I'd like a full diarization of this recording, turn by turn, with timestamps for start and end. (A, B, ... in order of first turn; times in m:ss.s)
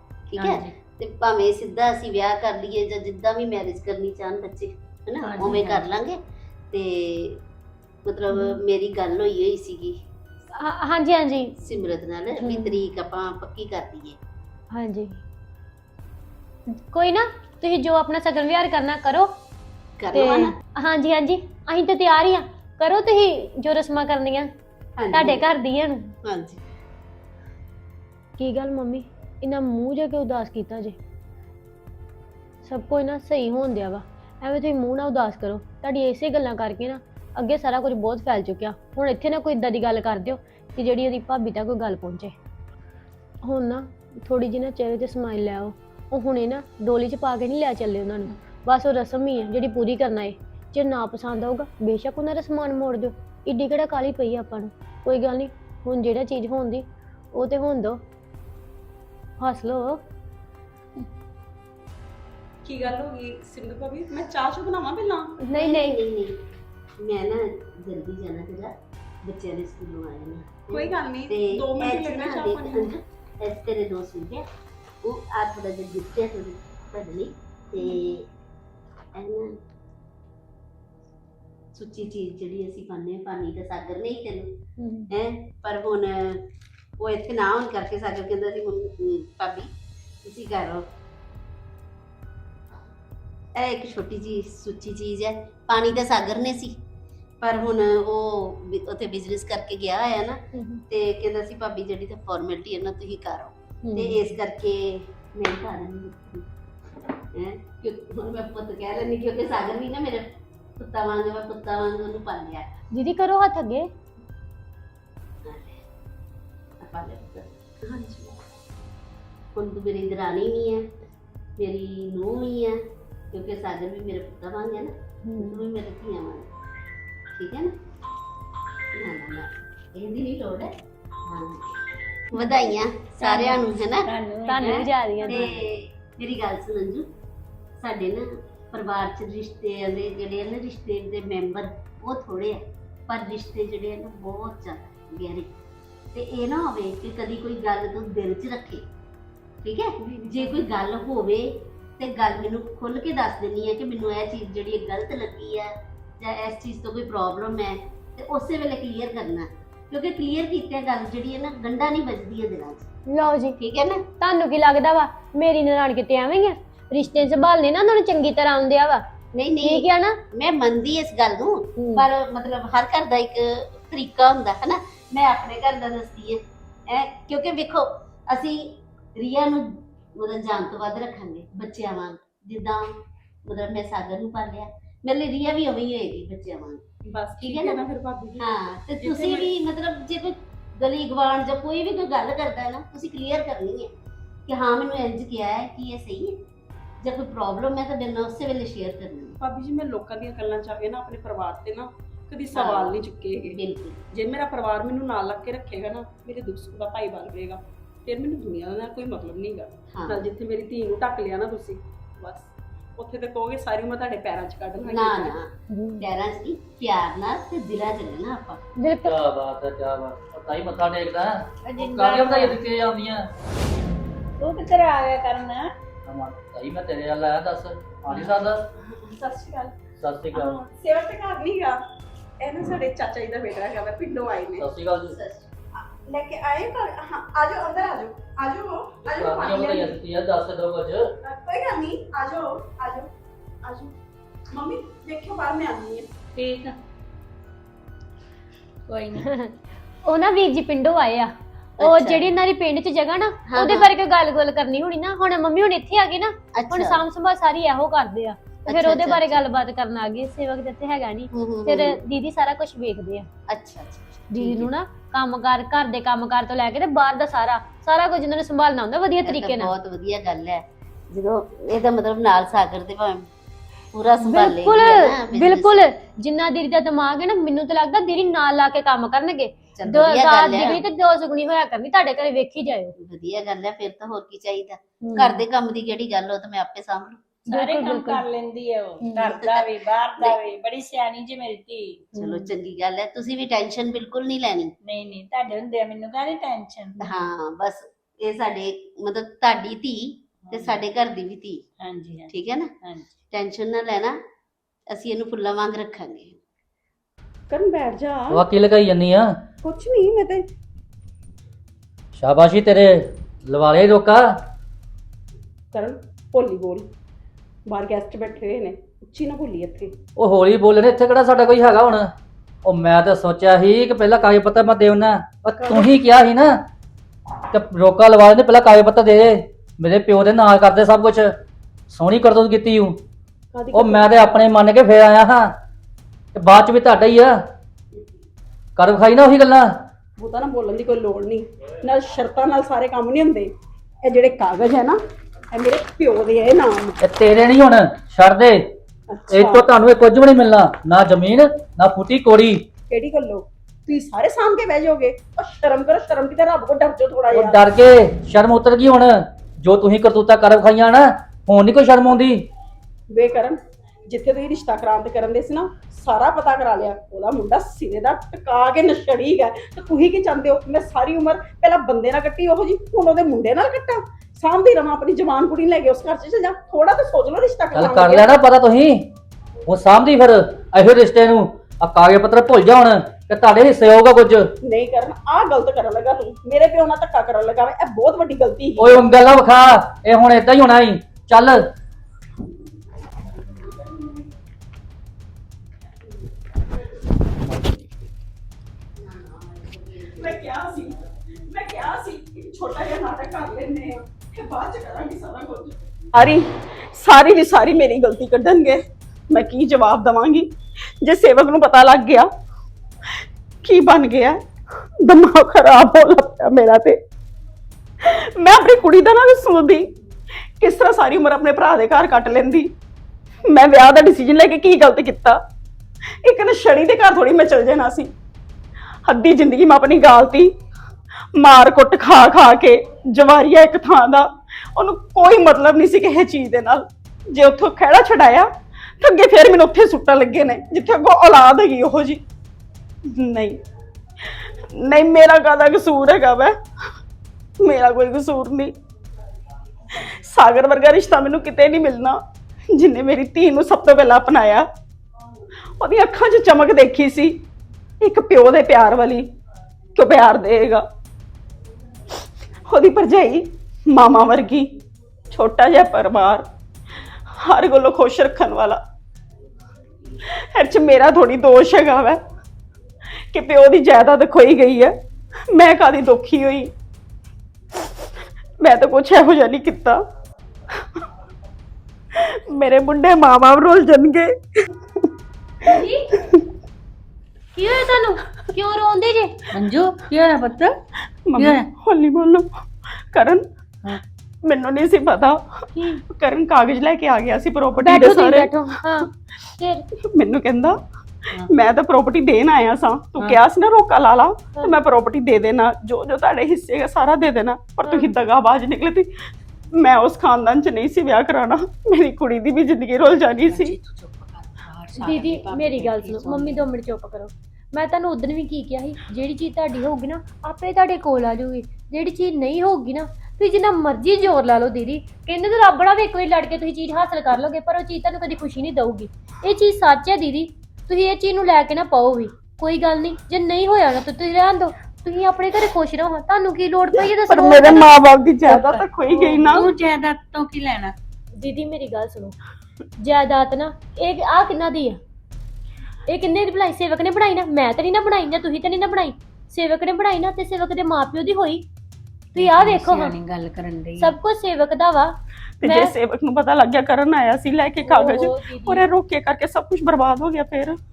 0:00.3-0:06.2 A
0:00.4-0:00.7 B
0:05.2-0:05.9 B
0:06.7-0:07.4 A
0:08.0-0:10.0 A
0:08.3-0:08.6 C
0:10.5-0:11.6 C
0:11.6-0:14.2 A
0:12.4-0:12.8 C
0:14.7-0:15.2 C
0:16.7-0:19.3 C
0:20.0-0:20.6 A
0:20.1-0:24.5 C
0:25.0-0:25.5 A
0:25.1-0:26.1 C
0:26.2-0:26.6 A
0:28.4-0:31.0 C
0:32.6-0:42.3 C
0:43.4-0:58.0 C
0:59.4-1:00.0 C
1:02.6-1:05.4 D
1:05.4-1:06.0 C
1:05.6-1:06.4 A
1:07.0-1:14.5 A
1:10.7-1:12.9 D
1:15.0-1:18.3 A
1:19.1-1:19.5 A
1:21.7-1:24.5 A
1:24.8-1:25.1 C
1:25.1-1:26.4 A
1:27.0-1:29.7 A
1:30.2-1:30.9 A
1:33.6-1:36.8 A
1:37.4-1:46.5 A
1:40.5-1:40.8 C
1:43.8-1:44.3 C
1:47.4-1:52.7 A
1:52.9-1:53.9 C
1:55.4-1:55.8 A
1:56.8-1:58.2 A
1:59.5-2:00.8 A
2:01.6-2:02.8 A
2:03.3-2:06.5 A
2:05.2-2:05.6 C
2:07.3-2:07.7 A
2:08.9-2:10.7 A
2:11.2-2:11.7 A
2:12.3-2:14.1 A
2:13.2-2:15.6 B
2:14.5-2:15.4 C
2:14.6-2:17.0 A
2:17.8-2:25.6 A
2:26.1-2:28.9 A
2:29.6-2:42.9 A
2:30.0-2:30.5 D
2:43.1-2:43.6 C
2:43.6-2:44.0 A
2:44.2-2:49.0 C
2:49.3-3:02.9 A
2:49.6-2:50.2 C
2:51.8-2:52.0 C
3:03.4-3:06.8 A
3:07.0-3:09.5 D
3:07.4-3:07.8 A
3:08.4-3:13.9 A
3:14.5-3:16.4 A
3:17.0-3:19.4 A
3:19.4-3:23.6 D
3:22.5-3:23.0 A
3:23.6-3:24.0 A
3:24.1-3:35.3 D
3:29.9-3:30.2 A
3:34.8-3:38.6 A
3:35.7-3:36.0 C
3:38.8-3:39.2 C
3:39.0-3:43.2 E
3:41.6-3:42.6 B
3:44.4-3:45.7 B
3:46.0-3:48.6 E
3:48.8-3:49.7 D
3:50.0-3:50.6 E
3:50.3-3:51.8 D
3:52.4-3:54.6 D
3:54.6-3:55.2 E
3:55.1-3:55.5 A
3:55.8-4:00.0 D
3:59.1-4:01.0 E
4:01.2-4:03.1 D
4:03.6-4:03.9 D
4:04.5-4:06.1 D
4:06.4-4:06.8 B
4:08.9-4:09.3 B
4:09.2-4:23.3 C
4:11.8-4:12.4 A
4:13.5-4:13.9 A
4:16.5-4:17.0 A
4:18.7-4:19.4 A
4:21.3-4:22.0 A
4:23.5-4:24.7 A
4:24.3-4:29.7 C
4:29.2-4:33.3 A
4:33.9-4:35.8 A
4:34.2-4:42.9 C
4:39.8-4:40.8 A
4:43.0-4:47.3 A
4:45.0-4:45.4 C
4:47.5-4:52.1 B
4:47.5-4:48.2 C
4:49.0-4:49.3 C
4:49.2-4:50.4 A
4:52.1-4:52.5 C
4:52.2-4:54.7 A
4:54.8-4:57.1 B
4:57.0-5:01.6 A
5:00.4-5:00.8 B
5:01.8-5:03.1 B
5:02.3-5:02.7 A
5:03.3-5:04.2 A
5:04.9-5:06.4 A
5:07.5-5:08.4 D
5:08.3-5:09.3 E
5:09.6-5:10.4 D
5:12.1-5:14.2 E
5:15.7-5:16.9 D
5:17.7-5:20.0 D
5:20.2-5:22.1 E
5:22.6-5:26.5 E
5:25.5-5:25.9 D
5:27.5-5:31.3 E
5:31.9-5:33.0 E
5:33.5-5:34.4 D
5:33.7-5:35.5 E
5:36.3-5:37.3 E
5:38.8-5:39.7 E
5:40.2-5:43.5 D
5:44.0-5:45.0 D
5:45.5-5:47.0 D
5:47.0-5:48.6 E
5:49.1-5:49.7 D
5:49.3-5:52.6 E
5:52.9-5:57.6 D
5:57.3-6:02.4 E
6:03.1-6:18.3 D
6:17.7-6:19.1 E
6:19.7-6:24.4 E
6:24.6-6:29.1 D
6:28.8-6:31.6 E
6:39.0-6:40.4 A
6:40.2-6:41.0 D
6:41.5-6:50.5 D
6:51.0-6:52.3 D
6:53.6-6:54.4 D
6:55.0-6:57.0 D
6:58.0-6:59.9 D
7:00.6-7:02.7 D
7:03.5-7:05.4 D
7:06.2-7:08.1 D
7:09.0-7:10.5 D
7:11.4-7:18.5 D
7:19.0-7:22.2 D
7:23.1-7:23.6 D
7:24.2-7:26.6 D
7:27.6-7:28.7 D
7:29.9-7:34.7 D
7:35.8-7:37.4 D
7:38.0-7:39.3 D
7:40.0-7:40.8 D
7:42.7-7:44.7 D
7:45.3-7:46.5 D
7:47.4-7:48.8 D
7:50.4-7:52.2 D
7:53.3-7:54.9 D
7:55.5-7:56.7 D
7:58.6-8:00.0 D
8:02.1-8:04.4 D
8:05.6-8:06.1 C
8:07.5-8:09.4 C
8:09.5-8:10.8 B
8:11.2-8:13.5 D
8:11.4-8:11.7 B
8:14.4-8:18.5 D
8:15.8-8:16.0 C
8:17.8-8:19.8 C
8:20.1-8:20.8 D
8:21.4-8:29.1 D
8:27.9-8:28.1 C
8:29.7-8:33.8 D
8:33.4-8:36.6 B
8:35.0-8:57.9 C
8:57.3-8:59.7 D
8:58.5-9:01.0 B
9:01.4-9:02.4 C
9:03.0-9:05.0 C
9:06.1-9:11.7 C
9:12.3-9:13.2 C
9:12.3-9:14.2 B
9:14.0-9:15.9 C
9:15.6-9:20.8 D
9:17.8-9:18.8 C